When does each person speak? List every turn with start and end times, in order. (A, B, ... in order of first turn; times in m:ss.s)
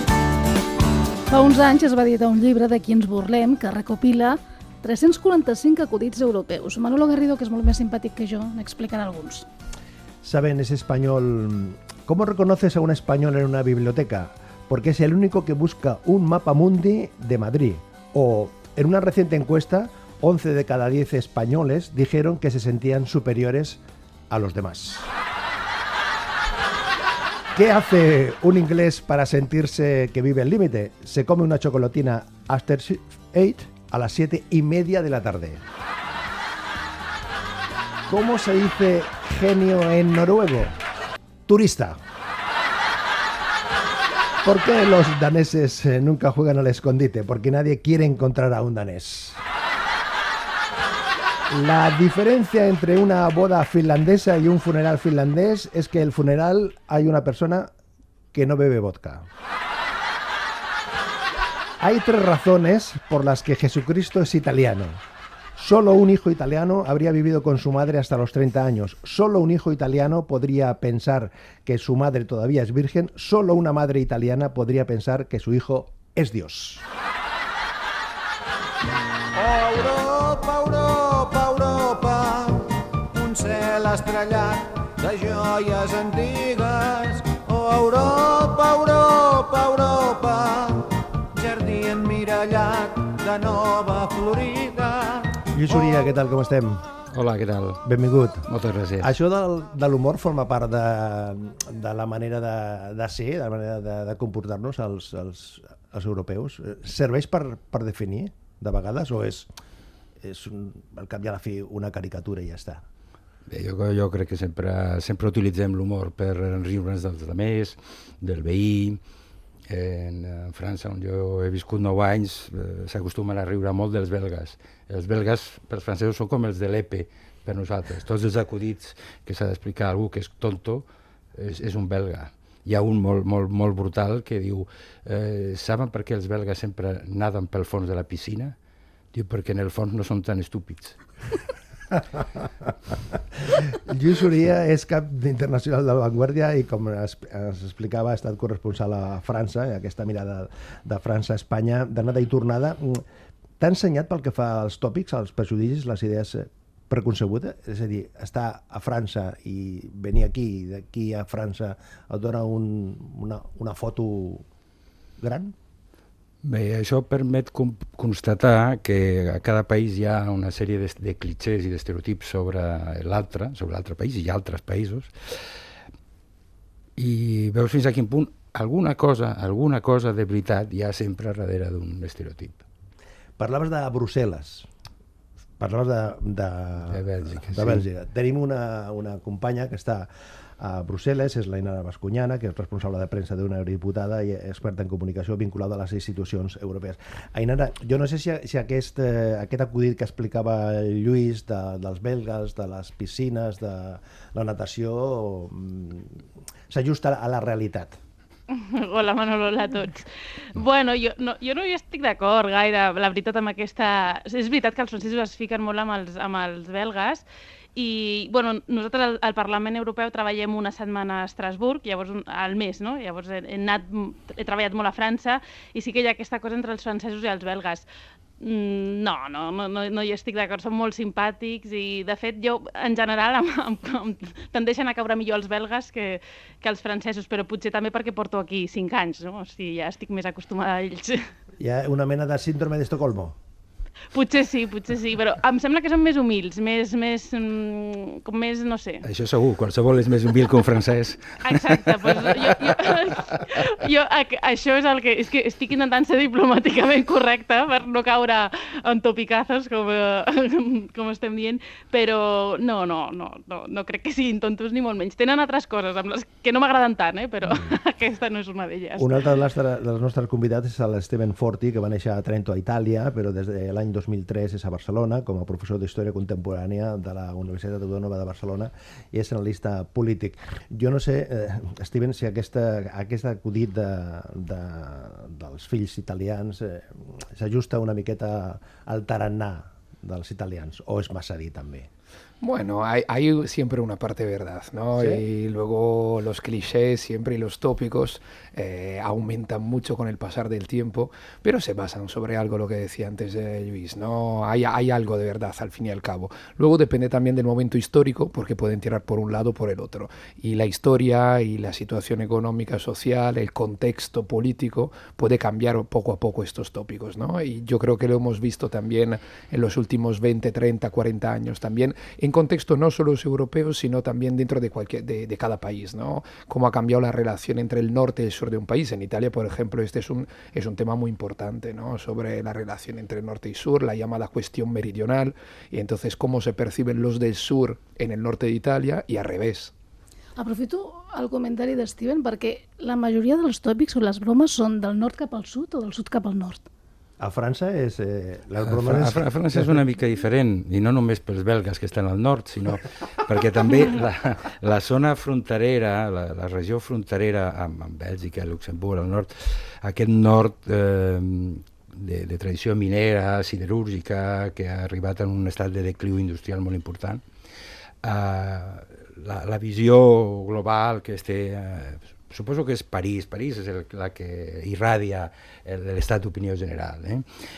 0:01.3-0:09.5 A
0:10.2-0:25.1 B
0:27.5-0:35.6 B
0:38.1-0:40.8 B
0:41.5-0:42.0 B
0:44.4-0:49.4 B
0:51.5-0:57.7 B
0:58.3-0:59.3 B
1:01.8-1:05.0 B
1:05.6-1:16.9 B
1:19.3-1:35.7 C
1:35.5-1:36.8 B
1:37.1-1:37.8 D
1:37.8-1:38.5 B
1:38.5-1:39.1 D
1:39.0-1:49.5 B
1:50.2-1:52.8 B
1:53.5-1:59.0 D
1:59.7-2:18.6 D
2:19.1-2:21.0 D
2:23.4-2:33.0 B
2:33.6-2:44.4 B
2:45.2-2:45.6 B
2:46.4-2:55.1 D
2:57.0-3:02.6 D
3:03.4-3:04.7 B
3:05.6-3:28.0 B
3:06.9-3:07.8 D
3:28.5-3:47.9 E
3:48.4-4:01.3 E
4:01.6-4:03.4 B
4:04.1-4:09.1 E
4:09.0-4:13.4 D
4:11.4-4:29.2 E
4:29.0-4:51.9 B
4:52.4-5:39.7 F
4:55.0-4:55.2 B
5:40.4-5:46.7 A
5:47.2-5:49.8 B
5:48.6-6:07.2 D
6:08.0-6:17.2 D